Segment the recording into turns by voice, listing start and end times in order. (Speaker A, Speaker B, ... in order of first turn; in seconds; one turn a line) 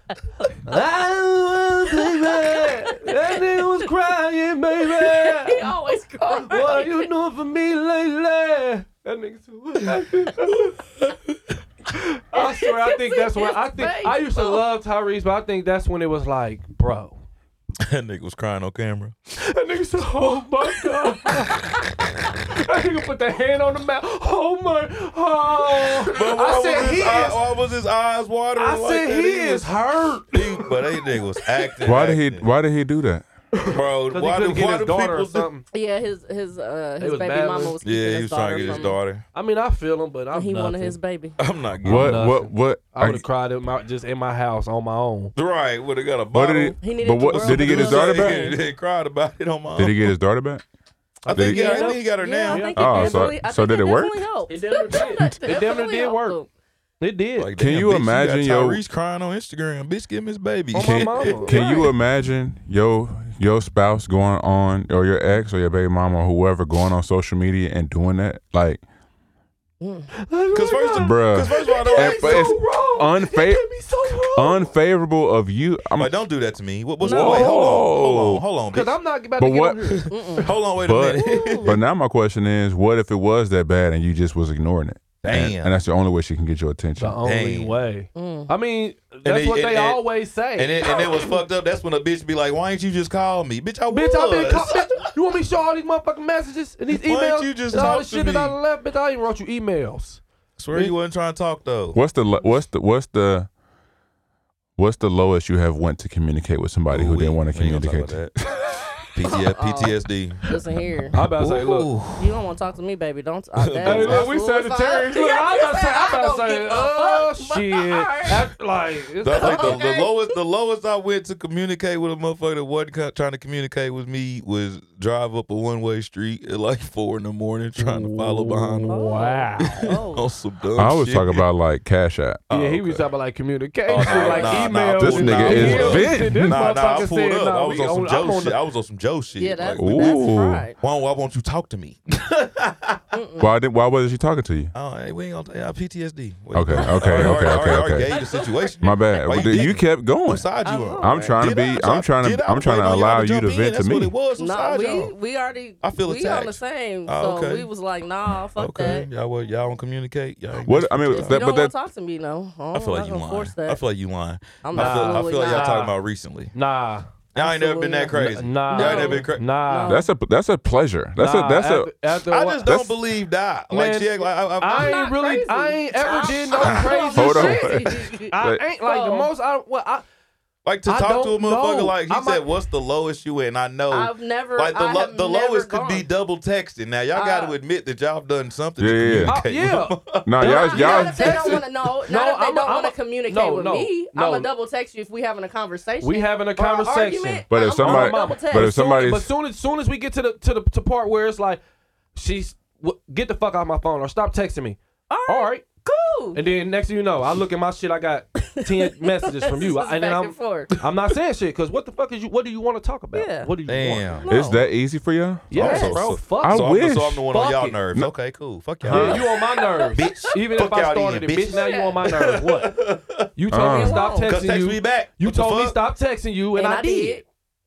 Speaker A: 0.6-5.8
Speaker B: 1.9-3.9
Speaker B: 5.0-7.1
Speaker A: 6.3-10.8
Speaker C: 10.5-11.1
Speaker A: 11.9-17.2
Speaker B: 12.3-14.6
Speaker C: 17.8-19.2
Speaker A: 19.4-27.4
Speaker C: 20.8-21.3
Speaker C: 26.0-29.7
Speaker A: 28.6-31.0
Speaker C: 30.3-32.5
Speaker D: 31.8-33.2
Speaker A: 33.5-35.6
Speaker C: 33.7-35.5
Speaker B: 35.7-39.0
Speaker A: 37.0-37.8
Speaker C: 37.8-39.2
Speaker A: 38.6-41.0
Speaker B: 40.3-41.4
Speaker C: 41.4-42.3
Speaker A: 41.8-45.3
Speaker D: 41.8-43.2
Speaker C: 45.3-50.1
Speaker D: 46.3-48.5
Speaker B: 46.8-48.6
Speaker D: 49.8-50.6
Speaker A: 51.2-53.3
Speaker C: 51.3-52.8
Speaker D: 51.3-51.8
Speaker B: 51.5-56.5
Speaker D: 52.8-54.1
Speaker A: 54.5-56.4
Speaker A: 57.0-57.5
Speaker C: 57.4-61.7
Speaker D: 57.6-58.8
Speaker A: 60.7-61.9
Speaker B: 61.5-61.9
Speaker D: 61.5-68.8
Speaker B: 69.8-70.1
Speaker A: 70.2-74.7
Speaker C: 70.5-72.6
Speaker D: 71.0-73.7
Speaker D: 74.3-76.1
Speaker C: 75.9-78.9
Speaker B: 77.0-77.6
Speaker D: 77.0-78.4
Speaker A: 77.4-77.9
Speaker A: 78.7-80.5
Speaker D: 79.4-80.1
Speaker B: 80.1-80.5
Speaker C: 80.4-81.8
Speaker D: 80.8-87.2
Speaker A: 81.2-81.8
Speaker C: 85.2-85.7
Speaker A: 87.0-91.4
Speaker C: 87.2-87.8
Speaker B: 88.1-88.5
Speaker C: 89.2-90.0
Speaker C: 90.5-95.0
Speaker A: 93.9-100.2
Speaker C: 96.9-98.6
Speaker C: 100.6-102.0
Speaker D: 101.9-103.5
Speaker D: 104.8-108.2
Speaker C: 106.9-108.3
Speaker C: 109.1-110.4
Speaker B: 109.3-111.2
Speaker C: 111.1-112.3
Speaker A: 111.1-111.9
Speaker B: 112.2-118.5
Speaker C: 113.5-114.3
Speaker A: 113.8-119.8
Speaker C: 119.2-129.0
Speaker B: 119.3-120.3
Speaker A: 127.8-129.8
Speaker B: 128.9-130.3
Speaker C: 129.6-131.4
Speaker D: 130.8-132.4
Speaker C: 132.5-133.1
Speaker A: 132.5-138.6
Speaker C: 133.9-140.3
Speaker B: 134.1-134.7
Speaker D: 135.0-136.6
Speaker B: 135.4-136.0
Speaker B: 139.4-140.8
Speaker D: 139.8-140.7
Speaker C: 140.8-143.0
Speaker B: 143.1-143.5
Speaker D: 143.4-144.7
Speaker C: 144.7-155.1
Speaker D: 146.5-148.1
Speaker B: 146.7-149.6
Speaker D: 148.8-150.5
Speaker B: 150.6-151.4
Speaker D: 151.0-154.1
Speaker B: 154.4-159.1
Speaker C: 155.8-157.7
Speaker C: 158.6-161.4
Speaker D: 160.6-161.7
Speaker B: 161.1-163.8
Speaker C: 162.7-166.5
Speaker B: 164.6-165.8
Speaker A: 164.7-165.9
Speaker A: 166.5-167.1
Speaker C: 167.3-169.5
Speaker B: 167.4-168.1
Speaker A: 168.1-170.1
Speaker B: 168.7-170.0
Speaker D: 169.8-171.9
Speaker A: 171.2-172.8
Speaker C: 172.2-175.1
Speaker D: 172.6-172.9
Speaker A: 173.7-180.0
Speaker B: 174.7-179.3
Speaker C: 176.5-176.9
Speaker D: 177.1-178.6
Speaker C: 180.6-190.4
Speaker A: 180.9-182.4
Speaker B: 183.9-186.1
Speaker B: 187.1-187.5
Speaker D: 188.8-189.3
Speaker A: 189.2-194.5
Speaker D: 190.2-191.6
Speaker B: 190.4-198.8
Speaker A: 196.0-201.6
Speaker D: 197.5-199.3
Speaker A: 202.1-205.6
Speaker B: 205.1-206.4
Speaker A: 206.3-214.2
Speaker B: 208.5-210.7
Speaker B: 213.1-213.5
Speaker C: 213.7-214.3
Speaker B: 214.2-214.7
Speaker D: 214.3-217.3
Speaker A: 215.5-216.7
Speaker C: 215.5-223.3
Speaker B: 215.6-216.0
Speaker A: 217.3-217.8
Speaker D: 218.8-219.2
Speaker A: 218.8-222.8
Speaker B: 221.5-221.9
Speaker A: 223.3-227.2
Speaker D: 223.5-223.9
Speaker B: 223.6-224.3
Speaker C: 224.1-225.8
Speaker B: 226.6-227.2